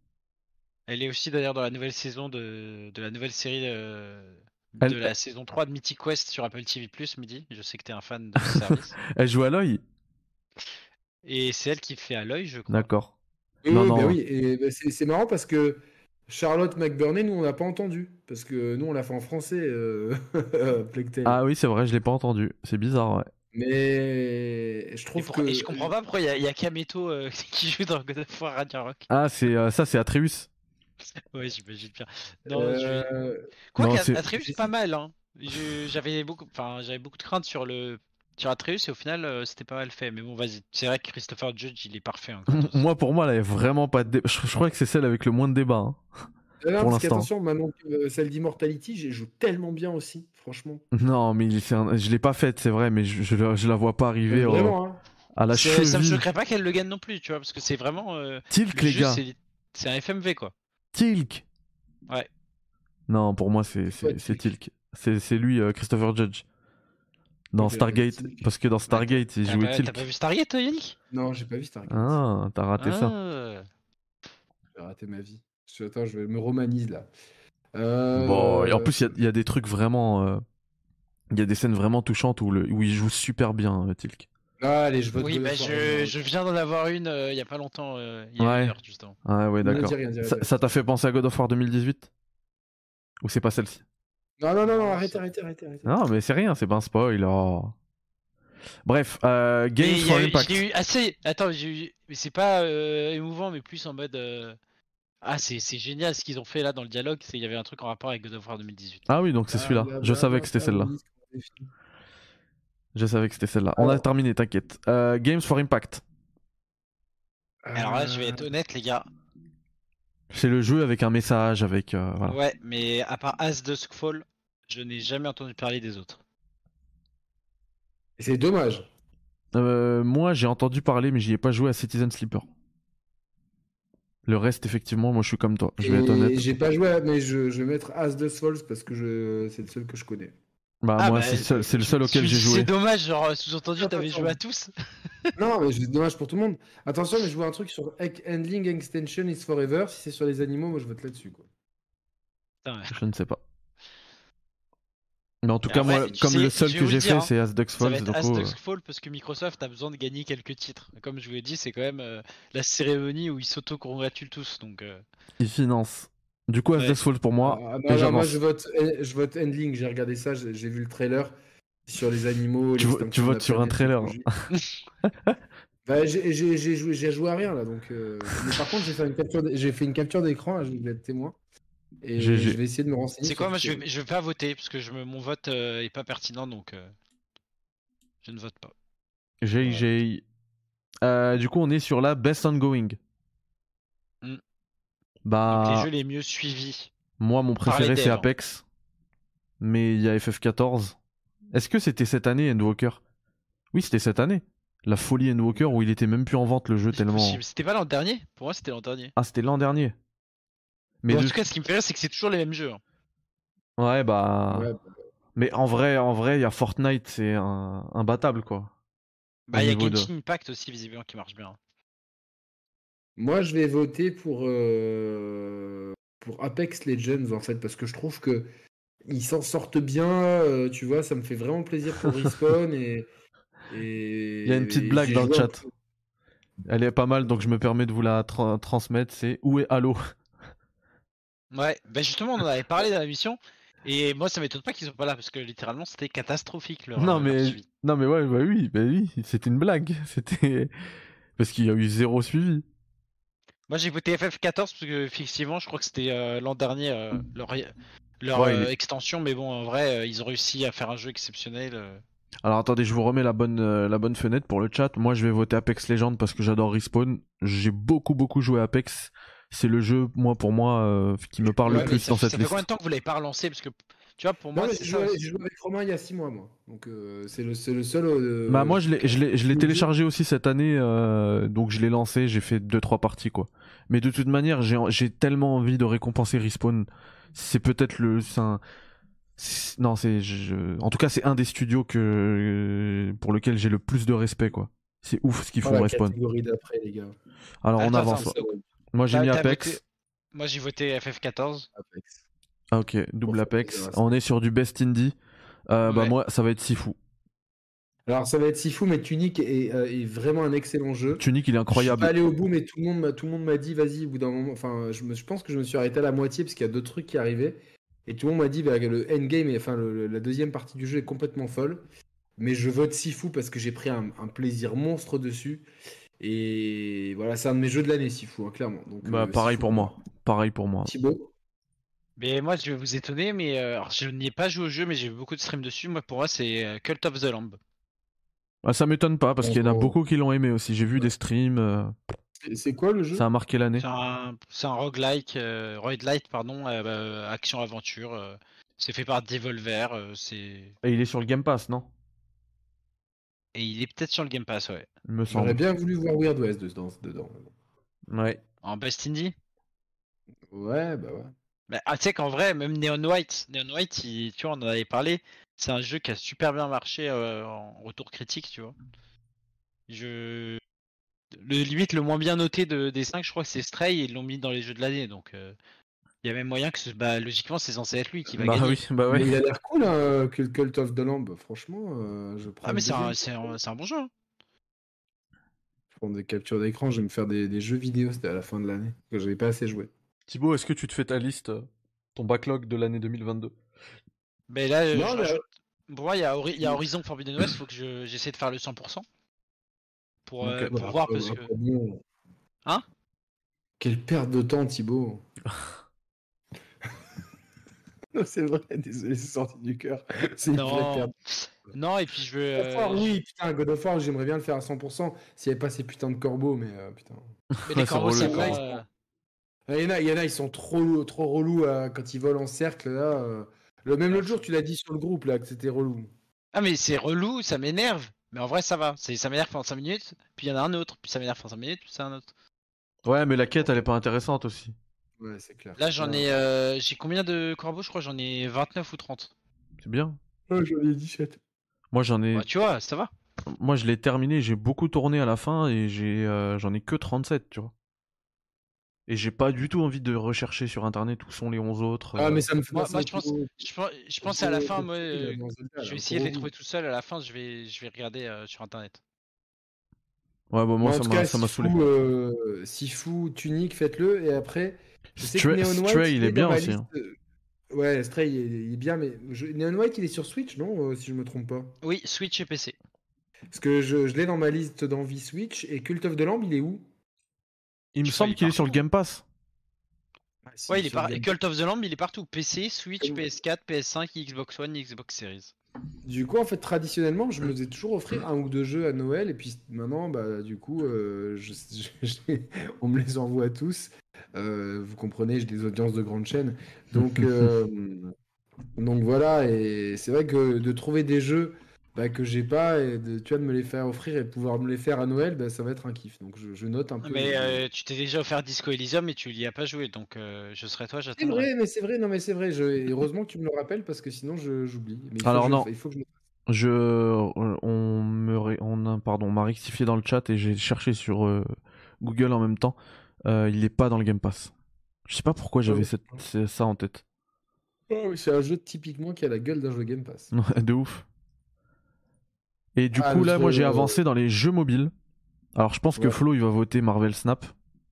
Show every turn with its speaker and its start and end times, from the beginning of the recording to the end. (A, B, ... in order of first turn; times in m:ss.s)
0:00.9-0:09.0 A
0:04.8-0:05.1 B
0:08.4-0:09.8 B
0:11.2-0:12.9 A
0:12.7-0:13.1 B
0:13.6-0:21.4 C
0:13.7-0:14.2 B
0:21.2-0:23.3 B
0:23.5-0:25.9 C
0:25.2-0:29.1 A
0:29.1-0:30.5 B
0:31.3-0:33.1 A
0:32.5-0:33.4 C
0:33.7-0:42.8 A
0:33.8-0:34.2 B
0:34.3-0:34.7 C
0:42.5-0:46.0 B
0:46.6-0:50.8 C
0:46.8-0:47.3 B
0:50.9-0:54.8 B
0:54.3-0:55.0 C
0:55.3-0:56.2 B
0:55.5-1:00.5 A
0:58.5-0:59.2 B
1:00.9-1:01.4 B
1:03.1-1:06.4 B
1:03.9-1:04.5 C
1:07.5-1:10.0 B
1:07.6-1:08.4 C
1:08.9-1:11.0 A
1:11.1-1:12.2 C
1:11.9-1:13.1 B
1:12.8-1:13.7 A
1:14.7-1:17.1 C
1:17.7-1:19.1 C
1:18.1-1:20.4 B
1:21.3-1:24.3 B
1:24.6-1:26.1 C
1:25.2-1:29.2 A
1:28.4-1:28.7 B
1:29.2-1:32.1 B
1:29.6-1:30.5 C
1:33.2-1:33.8 B
1:34.4-1:35.9 C
1:34.6-1:35.2 A
1:35.8-1:37.7 B
1:38.8-1:40.6 B
1:39.8-1:44.6 A
1:45.2-1:49.0 A
1:49.1-1:50.9 B
1:49.5-1:51.7 C
1:52.9-1:56.0 B
1:53.8-1:54.0 C
1:57.6-1:58.5 C
1:57.7-1:59.1 A
2:00.3-2:02.4 B
2:02.3-2:06.2 A
2:08.2-2:08.9 C
2:09.5-2:12.5 B
2:14.2-2:16.5 B
2:15.8-2:20.3 C
2:20.8-2:22.7 B
2:21.0-2:25.3 A
2:23.8-2:24.4 C
2:25.4-2:31.5 C
2:32.6-2:32.9 A
2:32.9-2:33.4 B
2:35.4-2:38.6 B
2:35.7-2:45.0 A
2:45.4-2:48.4 B
2:47.4-2:51.3 C
2:51.9-2:54.3 C
2:52.8-2:54.4 B
2:55.0-2:55.4 B
2:55.8-3:01.4 C
3:02.0-3:03.8 C
3:02.2-3:02.6 B
3:03.2-3:06.9 A
3:08.2-3:08.7 A
3:09.4-3:10.2 B
3:11.0-3:13.0 B
3:15.2-3:15.9 B
3:15.5-3:16.9 A
3:17.2-3:18.6 B
3:17.6-3:18.3 A
3:19.6-3:21.0 B
3:21.5-3:23.0 B
3:23.7-3:27.4 B
3:26.9-3:29.1 A
3:29.2-3:29.9 B
3:31.0-3:31.4 B
3:31.1-3:32.8 A
3:33.8-3:34.7 B
3:34.5-3:34.9 C
3:35.4-3:38.7 B
3:39.5-3:41.6 A
3:39.5-3:40.1 B
3:43.2-3:48.5 C
3:49.1-3:53.1 C
3:53.7-3:55.6 C
3:54.4-3:55.6 B
3:56.7-4:00.0 B
4:01.5-4:07.6 A
4:07.0-4:10.7 B
4:11.4-4:12.6 B
4:13.7-4:22.0 A
4:18.3-4:18.7 B
4:22.4-4:32.6 B
4:31.4-4:32.0 C
4:31.7-4:35.2 A
4:34.5-4:39.0 C
4:38.5-4:48.6 B
4:39.5-4:39.9 C
4:49.4-4:56.1 B
4:55.6-4:57.1 C
4:57.6-4:58.4 B
4:57.8-4:58.3 A
4:57.9-4:58.6 C
4:58.9-4:59.8 B
4:59.1-4:59.8 A
5:00.3-5:01.7 A
5:01.7-5:02.2 C
5:02.7-5:05.2 B
5:03.2-5:04.2 C
5:05.7-5:07.0 B
5:05.8-5:06.1 A
5:08.1-5:21.8 C
5:11.2-5:12.1 B
5:22.4-5:25.6 C
5:26.2-5:30.0 C
5:29.0-5:30.9 B
5:30.8-5:31.3 C
5:32.2-5:37.6 A
5:38.6-5:42.0 B
5:39.4-5:40.0 C
5:42.4-5:43.2 C
5:43.1-5:43.8 B
5:43.8-5:50.7 A
5:50.8-5:51.9 B
5:53.5-5:54.9 A
5:55.1-5:55.6 B
5:55.3-5:57.5 C
5:58.1-5:58.4 B
5:58.6-5:59.3 A
6:00.5-6:01.3 C
6:01.7-6:08.7 A
6:09.9-6:10.6 A
6:11.4-6:15.5 A
6:16.2-6:18.8 A
6:18.4-6:19.3 B
6:19.1-6:23.5 C
6:22.6-6:24.1 A
6:25.9-6:29.9 C
6:30.3-6:33.6 B
6:34.5-6:39.0 A
6:34.9-6:35.4 C
6:40.2-6:41.5 A
6:40.4-6:40.7 B
6:40.7-6:42.0 C
6:43.8-6:45.2 C
6:48.1-6:51.1 C
6:50.5-6:53.1 A
6:52.6-6:57.2 C
6:57.6-6:58.6 B
6:57.7-6:58.8 A
6:58.2-6:58.8 C
6:59.7-7:06.1 C
7:04.1-7:04.4 A
7:06.5-7:12.3 A
7:13.0-7:14.7 B
7:15.2-7:16.3 C
7:15.8-7:19.3 A
7:19.8-7:20.2 B
7:20.5-7:21.4 C
7:21.9-7:22.5 B
7:22.3-7:23.1 A
7:23.5-7:27.7 B
7:29.1-7:32.4 B
7:32.2-7:33.5 C
7:32.7-7:39.0 A
7:34.2-7:36.5 C
7:40.5-7:41.8 B
7:40.8-7:47.2 C
7:45.2-7:46.8 B
7:47.7-7:51.7 C
7:51.8-7:52.7 A
7:53.5-7:56.8 C
7:57.9-7:59.2 B
7:58.0-7:58.8 A
8:00.5-8:01.3 C
8:00.7-8:05.5 A
8:06.0-8:18.1 C
8:18.8-8:27.6 C
8:27.0-8:31.5 A
8:31.2-8:36.1 C
8:35.2-8:35.7 B
8:36.5-8:41.5 B
8:42.0-8:44.5 B
8:45.1-8:47.0 B
8:45.6-8:46.2 C
8:47.9-8:50.3 C
8:50.3-8:51.0 B
8:52.8-8:54.9 B
8:52.9-8:54.0 C
8:55.5-8:57.5 B